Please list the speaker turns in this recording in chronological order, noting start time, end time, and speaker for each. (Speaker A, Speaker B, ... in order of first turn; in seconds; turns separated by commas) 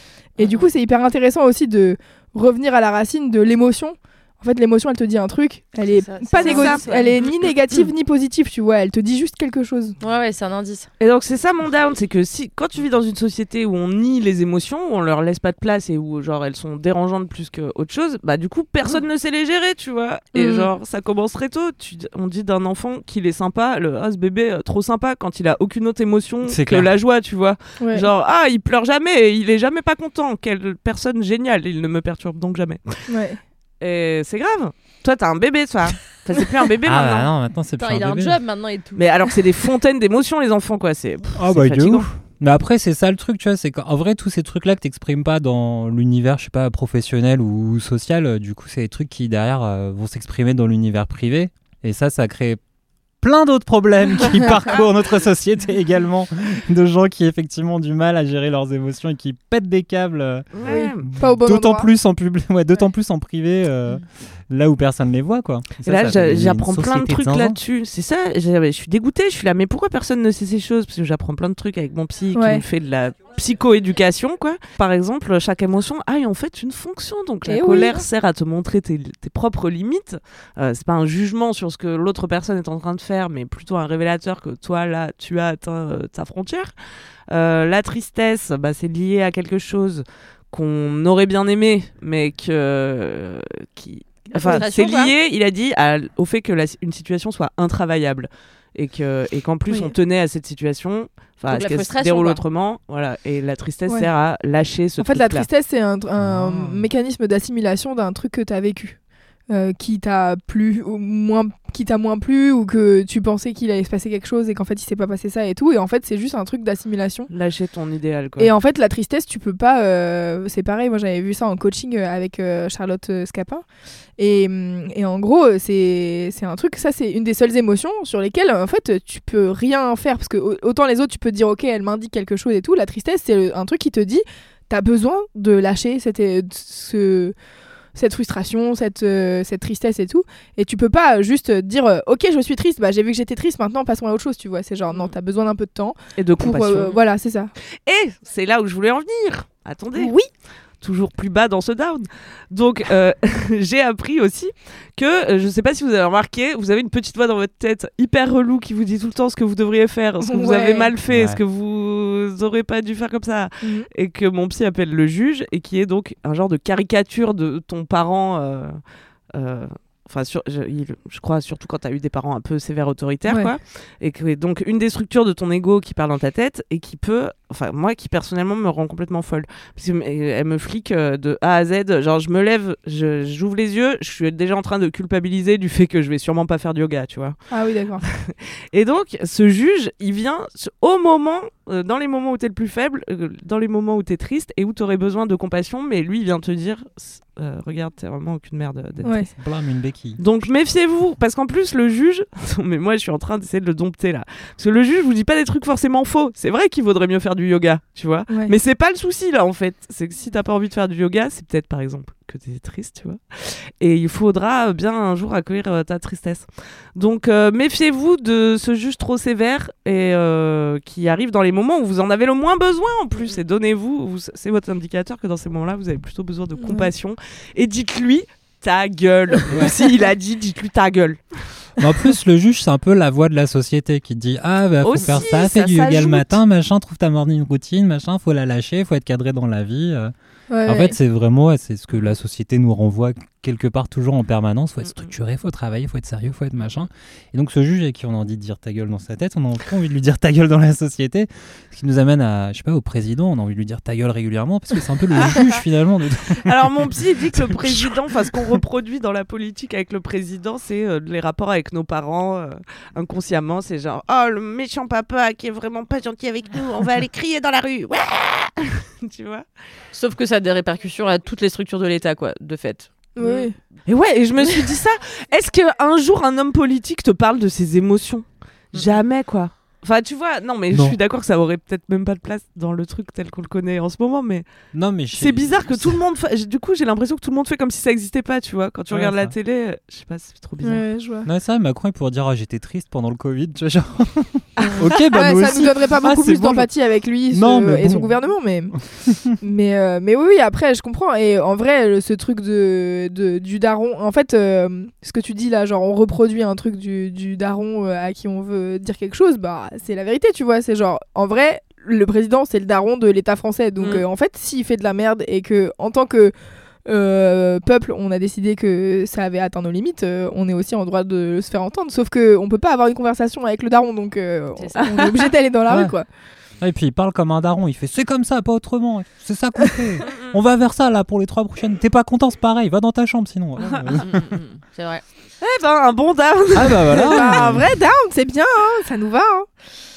Speaker A: 0.4-9.9, Speaker B: 5.9-7.2, Speaker C: 6.4-7.1, Speaker B: 10.0-10.9, Speaker C: 11.0-32.9, Speaker A: 20.4-20.6, Speaker D: 26.4-26.9, Speaker A: 27.8-28.1, Speaker A: 33.1-33.4, Speaker C: 33.8-37.3, Speaker D: 36.9-38.4, Speaker B: 37.8-39.0, Speaker C: 39.0-42.1, Speaker D: 41.4-52.6, Speaker D: 53.2-60.5, Speaker C: 60.5-61.1, Speaker A: 60.6-61.9, Speaker D: 61.0-67.6, Speaker C: 65.8-86.7, Speaker A: 72.3-72.6, Speaker A: 77.5-78.0, Speaker C: 87.3-105.5, Speaker B: 94.3-95.1, Speaker B: 101.5-102.4, Speaker A: 105.0-109.0, Speaker D: 106.2-106.9, Speaker A: 109.5-117.3, Speaker C: 117.3-118.5, Speaker A: 118.4-123.6, Speaker A: 124.2-137.3, Speaker A: 137.9-147.5, Speaker C: 146.2-147.0, Speaker C: 147.8-150.1, Speaker A: 149.9-150.3, Speaker C: 150.8-168.8, Speaker A: 160.2-160.9, Speaker D: 161.1-161.4, Speaker A: 163.6-163.9, Speaker C: 169.3-187.4, Speaker A: 187.5-188.0, Speaker C: 188.0-199.3, Speaker D: 199.0-200.2, Speaker A: 199.0-199.3, Speaker C: 200.2-231.2, Speaker A: 226.6-226.9, Speaker D: 229.5-229.8, Speaker D: 231.8-240.1, Speaker C: 234.8-236.4, Speaker A: 240.5-241.0, Speaker D: 240.6-258.0, Speaker C: 256.4-269.4, Speaker B: 269.9-272.9, Speaker A: 273.1-273.6, Speaker C: 273.2-284.4, Speaker D: 280.7-281.0, Speaker D: 284.7-286.0, Speaker C: 285.1-290.8, Speaker D: 288.9-289.3, Speaker A: 290.6-291.3, Speaker D: 291.2-296.7, Speaker C: 294.6-295.0, Speaker A: 295.1-298.8, Speaker D: 297.3-298.1, Speaker D: 299.1-299.3, Speaker A: 299.4-316.3, Speaker C: 313.8-314.1, Speaker A: 316.9-326.1, Speaker B: 324.6-325.0, Speaker D: 325.7-325.9, Speaker D: 326.6-334.1, Speaker C: 330.1-330.4, Speaker C: 333.6-333.9, Speaker B: 334.0-335.0, Speaker C: 335.4-337.3, Speaker D: 336.5-337.7, Speaker A: 336.9-339.5